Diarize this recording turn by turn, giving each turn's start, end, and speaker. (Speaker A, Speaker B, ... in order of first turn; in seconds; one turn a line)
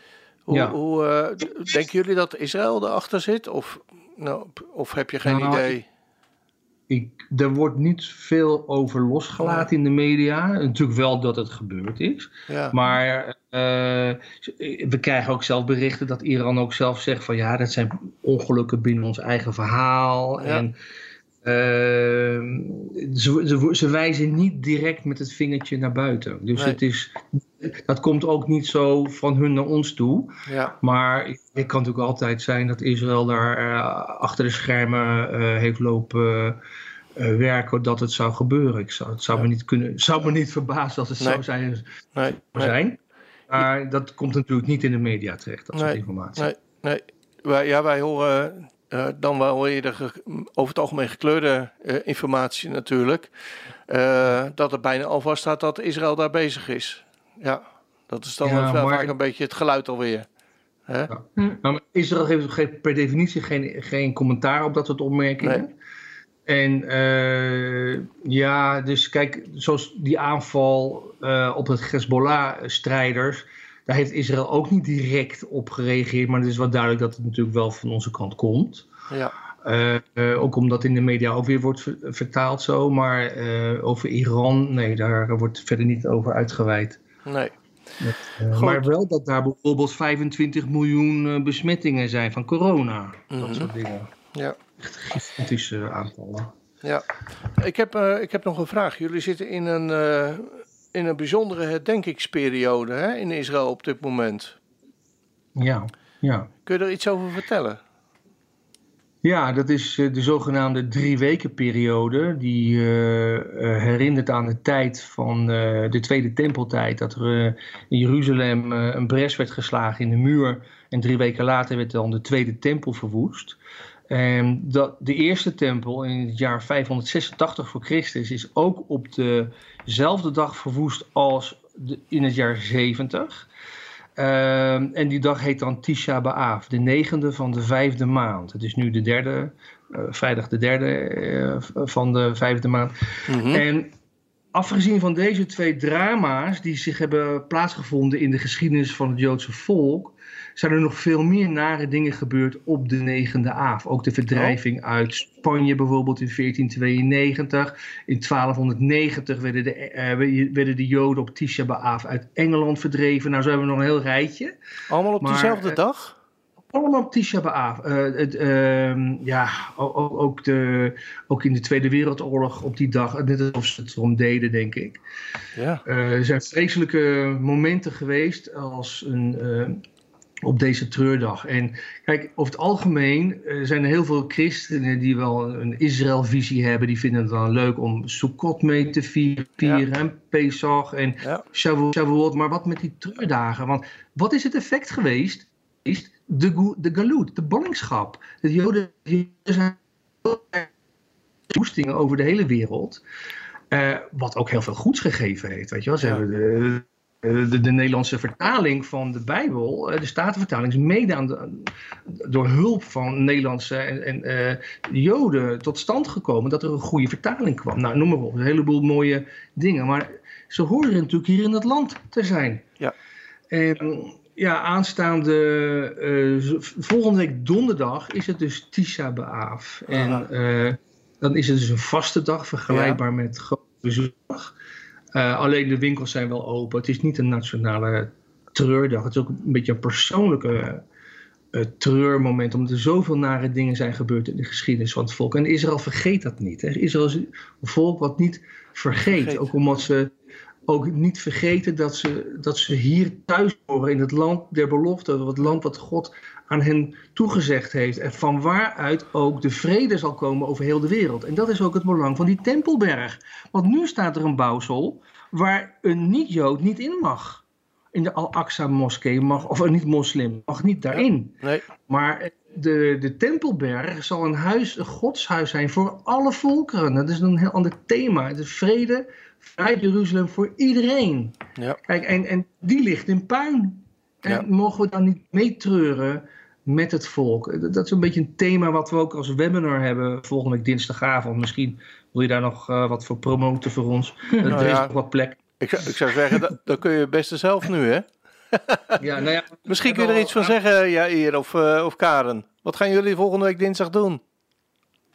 Speaker A: 0.5-5.8
Speaker B: 0.5-0.8
Speaker B: 5.2-5.7
Speaker B: 6.9-20.8
Speaker A: 9.4-9.7
Speaker A: 12.5-12.8
Speaker B: 21.4-36.6
Speaker A: 30.5-30.7
Speaker B: 37.1-46.5
Speaker A: 42.1-42.7
Speaker A: 45.7-53.3
Speaker A: 53.9-60.2
Speaker B: 58.4-59.1
Speaker B: 61.1-65.7
Speaker B: 66.5-78.9
Speaker B: 79.6-87.0
Speaker A: 87.2-87.5
Speaker B: 88.0-94.1
Speaker A: 88.5-88.9
Speaker A: 93.3-93.7
Speaker B: 94.8-96.5
Speaker A: 97.6-104.6
Speaker B: 105.5-106.5
Speaker A: 106.7-107.8
Speaker B: 109.2-123.6
Speaker B: 124.1-133.5
Speaker B: 134.2-143.9
Speaker A: 143.3-143.6
Speaker B: 144.5-164.5
Speaker A: 164.9-166.2
Speaker B: 165.2-165.8
Speaker B: 166.7-175.0
Speaker A: 175.6-175.8
Speaker B: 175.8-179.8
Speaker B: 180.4-200.7
Speaker B: 201.5-203.0
Speaker B: 203.7-222.7
Speaker B: 223.5-234.5
Speaker A: 229.9-230.2
Speaker A: 232.7-233.0
Speaker B: 235.1-240.8
Speaker B: 241.5-250.1
Speaker A: 249.1-249.5
Speaker B: 250.7-295.4
Speaker A: 270.9-271.6
Speaker A: 294.4-294.9
Speaker A: 295.6-299.0
Speaker B: 299.0-300.6
Speaker A: 299.6-304.2